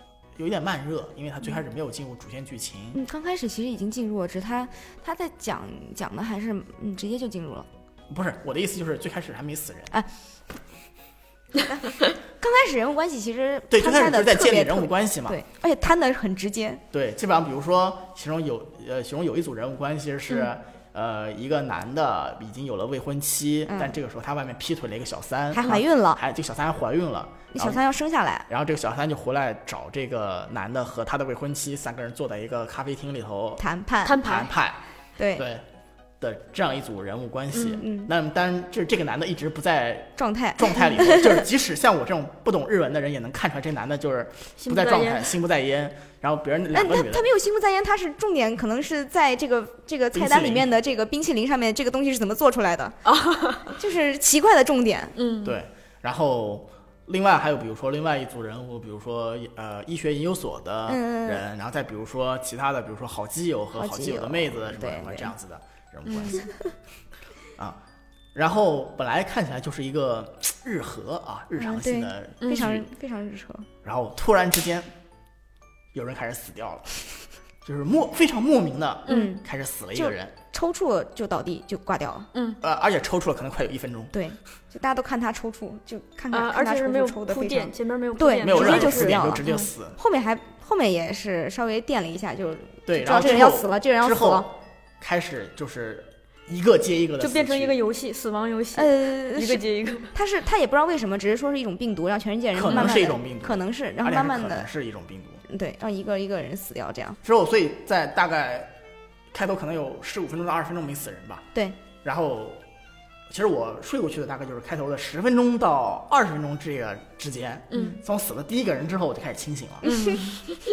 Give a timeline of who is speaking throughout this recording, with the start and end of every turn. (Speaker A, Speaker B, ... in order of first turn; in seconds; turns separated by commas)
Speaker A: 0.4-3.0, Speaker B: 2.9-7.7, Speaker A: 8.1-9.9, Speaker B: 11.6-16.8, Speaker A: 13.7-15.4, Speaker A: 16.9-27.8, Speaker B: 23.7-24.0, Speaker B: 25.5-26.2, Speaker B: 27.5-28.5, Speaker A: 28.5-33.6, Speaker B: 33.6-34.2, Speaker C: 34.0-34.5, Speaker A: 34.2-34.8, Speaker B: 35.2-35.5, Speaker A: 35.4-35.6, Speaker A: 36.2-47.3, Speaker C: 37.5-37.9, Speaker B: 37.8-38.1, Speaker B: 40.2-41.4, Speaker C: 44.6-45.4, Speaker B: 46.7-53.0, Speaker A: 50.1-50.7, Speaker C: 53.1-53.7, Speaker B: 53.7-55.1, Speaker C: 55.2-55.6, Speaker A: 55.4-66.5, Speaker B: 60.9-61.5, Speaker B: 63.8-65.3, Speaker B: 66.1-66.5, Speaker A: 68.3-72.9, Speaker B: 71.6-73.7, Speaker C: 72.4-72.8, Speaker A: 73.8-74.9, Speaker A: 75.9-77.0, Speaker A: 77.6-80.3, Speaker C: 79.1-79.3, Speaker B: 79.1-79.4, Speaker B: 80.0-82.3, Speaker C: 82.3-82.6, Speaker A: 82.6-84.2, Speaker B: 84.1-94.5, Speaker C: 86.3-89.7, Speaker A: 88.4-90.0, Speaker A: 92.9-97.8, Speaker C: 97.2-100.1, Speaker B: 98.8-104.7, Speaker A: 102.5-105.4, Speaker C: 102.7-103.0, Speaker B: 105.5-107.2, Speaker A: 107.2-108.7, Speaker A: 109.3-111.5, Speaker A: 112.0-112.6, Speaker A: 113.3-119.9, Speaker C: 117.7-118.0, Speaker B: 119.8-120.2, Speaker C: 119.8-120.4